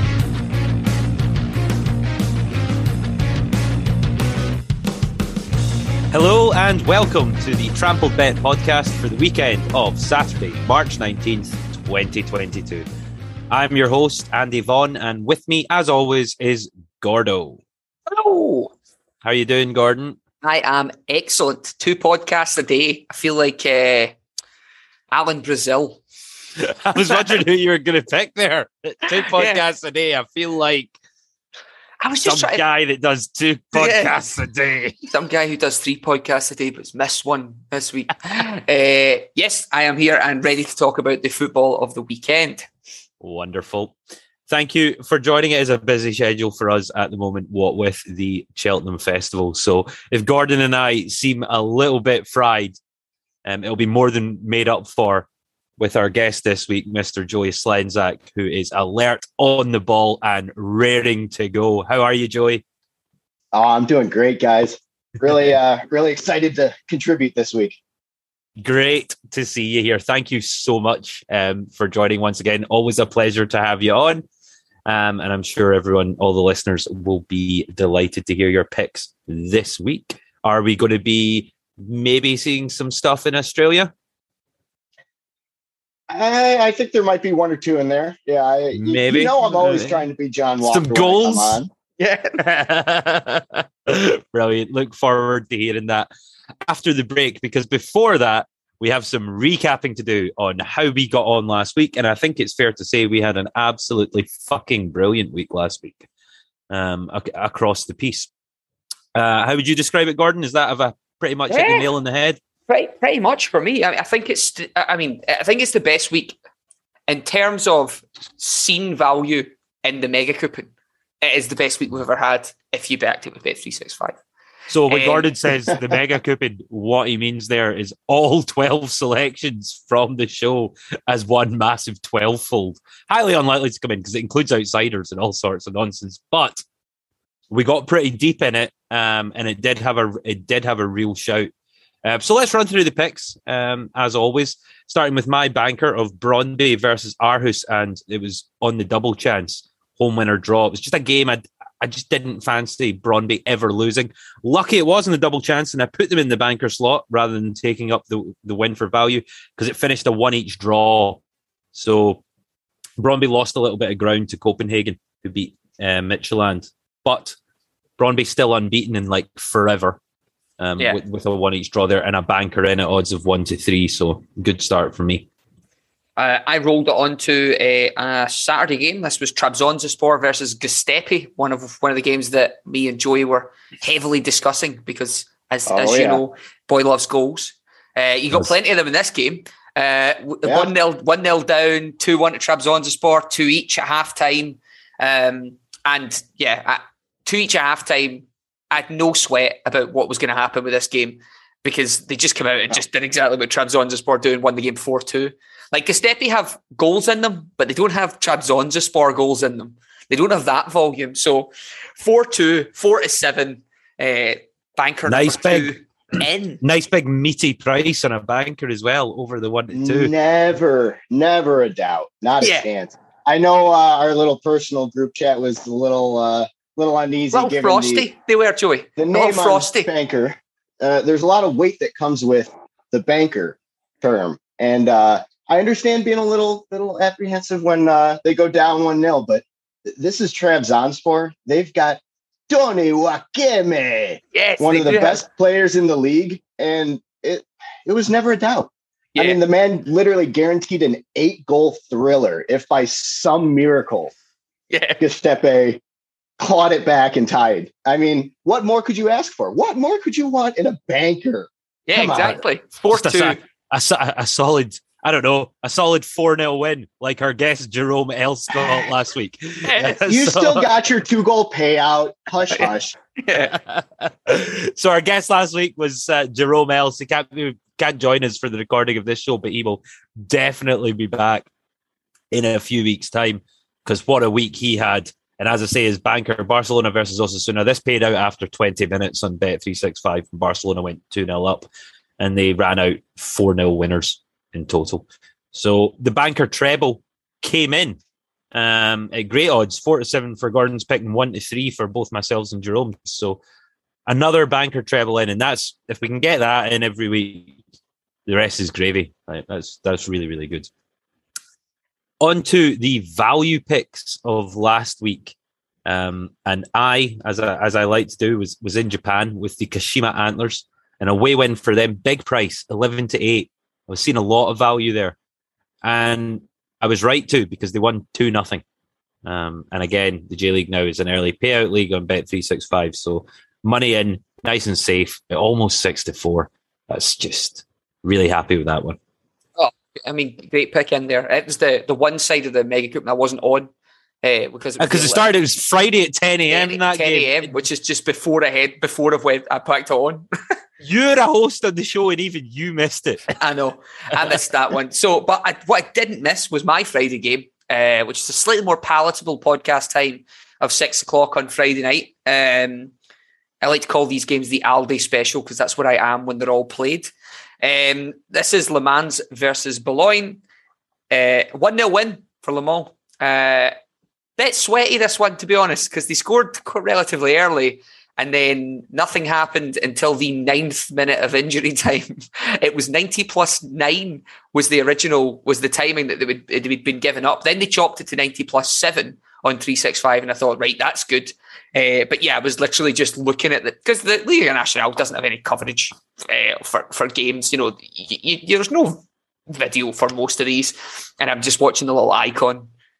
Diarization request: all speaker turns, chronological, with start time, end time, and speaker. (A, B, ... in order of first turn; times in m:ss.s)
0:06.1-0:12.8 A
0:13.5-0:17.6 A
0:18.1-0:18.7 B
0:19.2-0:20.2 A
0:20.4-0:24.1 B
0:25.1-0:26.0 B
0:26.6-0:30.9 A
0:27.0-0:27.3 B
0:29.2-0:29.6 B
0:32.0-0:32.6 B
0:32.2-0:35.0 A
0:33.7-0:34.2 B
0:35.1-0:42.7 B
0:43.2-0:43.9 A
0:44.5-0:52.8 A
0:53.4-0:55.3 A
0:55.8-1:02.6 A
1:03.5-1:07.8 C
1:08.6-1:14.2 A
1:14.8-1:23.9 A
1:26.1-1:31.7 C
1:28.7-1:30.0 A
1:30.6-1:31.6 A
1:32.0-1:32.4 B
1:32.4-1:36.1 A
1:36.6-1:46.0 A
1:46.7-1:48.3 A
1:49.1-1:52.4 A
1:51.5-1:51.9 B
1:52.7-1:56.4 B
1:57.1-2:00.7 B
2:01.2-2:04.2 B
2:04.7-2:16.6 A
2:04.9-2:05.3 B
2:17.5-2:21.5 A
2:22.0-2:41.2 A
2:41.7-2:42.2 A
2:43.0-2:47.4 A
2:48.0-2:50.0 A
2:50.6-2:55.3 A
2:56.2-3:36.6 B
3:05.7-3:06.2 C
3:10.4-3:10.7 C
3:35.0-3:35.7 A
3:36.6-3:40.1 A
3:39.7-3:48.1 C
3:42.4-3:42.7 B
3:47.3-3:49.9 B
3:49.0-4:14.1 C
4:04.3-4:05.2 B
4:09.1-4:09.4 B
4:14.7-4:15.0 B
4:15.0-4:15.8 C
4:16.4-4:22.4 C
4:21.9-4:23.4 B
4:22.9-4:30.7 A
4:29.6-4:30.0 B
4:30.0-4:33.0 C
4:32.5-4:33.5 B
4:33.3-4:41.5 A
4:42.3-4:51.7 A
4:52.2-4:58.0 A
4:58.5-5:03.4 A
5:04.1-5:07.5 A
5:08.2-5:10.7 A
5:12.2-5:25.2 A
5:25.8-5:28.6 A
5:29.2-5:39.0 A
5:39.6-5:43.7 B
5:44.2-5:45.3 B
5:44.8-5:47.5 A
5:46.5-5:50.2 B
5:50.8-5:53.3 A
5:53.4-6:02.9 B
6:03.6-6:10.4 B
6:11.1-6:13.7 B
6:14.4-6:42.7 B